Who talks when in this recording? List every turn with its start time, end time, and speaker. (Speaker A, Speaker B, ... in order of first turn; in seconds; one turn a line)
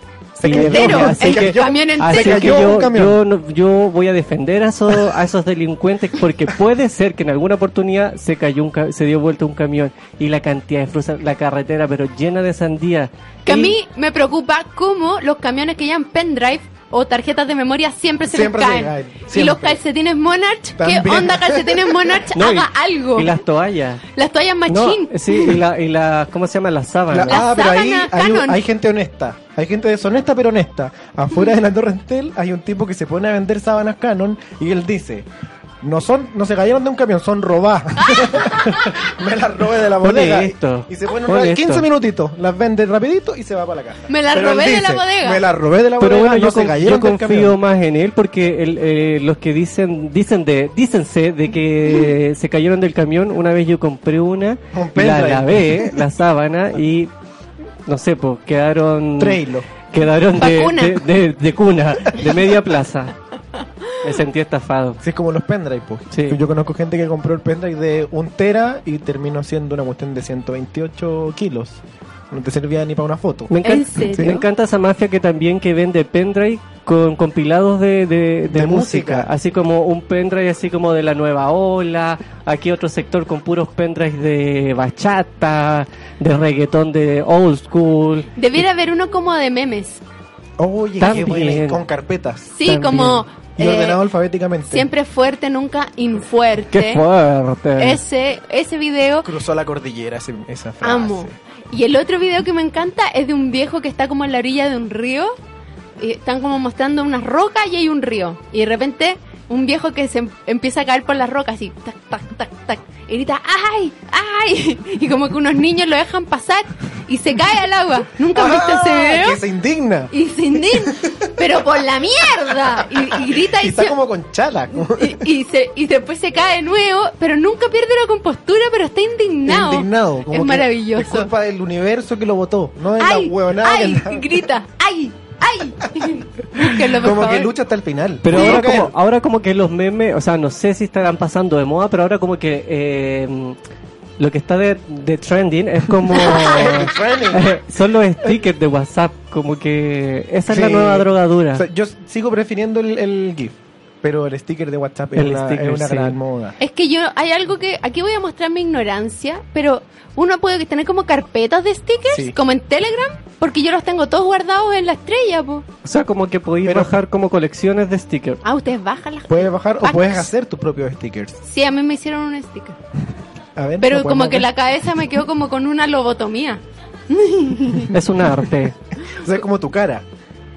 Speaker A: 0.4-3.2
Speaker B: 0.4-13.8
Speaker C: 0.5-2.7
Speaker C: 13.5-23.3
Speaker A: 18.3-19.8
Speaker A: 20.8-22.2
Speaker B: 22.3-24.1
Speaker C: 24.1-25.6
Speaker B: 24.7-27.4
Speaker A: 27.1-35.3
Speaker C: 27.3-28.6
Speaker A: 35.8-47.6
Speaker C: 38.0-39.0
Speaker B: 40.0-41.9
Speaker C: 44.1-45.4
Speaker B: 46.0-57.1
Speaker A: 54.7-56.0
Speaker B: 57.9-63.1
Speaker A: 59.2-59.7
Speaker C: 60.4-61.0
Speaker B: 64.0-65.0
Speaker A: 65.0-73.5
Speaker B: 66.1-66.4
Speaker B: 73.5-88.3
Speaker C: 73.6-74.4
Speaker A: 74.0-74.4
Speaker A: 78.5-79.3
Speaker C: 88.4-90.0
Speaker A: 90.6-92.5
Speaker B: 91.0-91.8
Speaker C: 92.5-94.0
Speaker B: 92.6-93.2
Speaker A: 93.6-94.9
Speaker C: 94.7-97.0
Speaker B: 96.7-98.0
Speaker C: 97.8-99.3
Speaker A: 99.2-101.3
Speaker C: 100.8-105.3
Speaker C: 106.0-119.4
Speaker A: 118.3-120.1
Speaker C: 120.1-124.0
Speaker A: 120.7-121.3
Speaker A: 123.0-125.2
Speaker C: 124.8-131.3
Speaker A: 129.5-134.4
Speaker C: 133.0-137.5
Speaker A: 136.9-138.9
Speaker B: 138.2-143.6
Speaker C: 138.3-138.7
Speaker B: 144.2-151.7
Speaker A: 146.1-147.6
Speaker C: 146.2-146.6
Speaker A: 150.5-156.6
Speaker B: 155.2-156.2
Speaker C: 156.6-165.7
Speaker A: 162.1-162.4
Speaker B: 165.8-168.4
Speaker A: 166.6-166.9
Speaker C: 168.4-170.3
Speaker A: 169.3-171.4
Speaker C: 171.4-172.8
Speaker A: 173.6-174.5
Speaker C: 173.8-177.9
Speaker B: 177.9-178.8
Speaker A: 179.1-180.1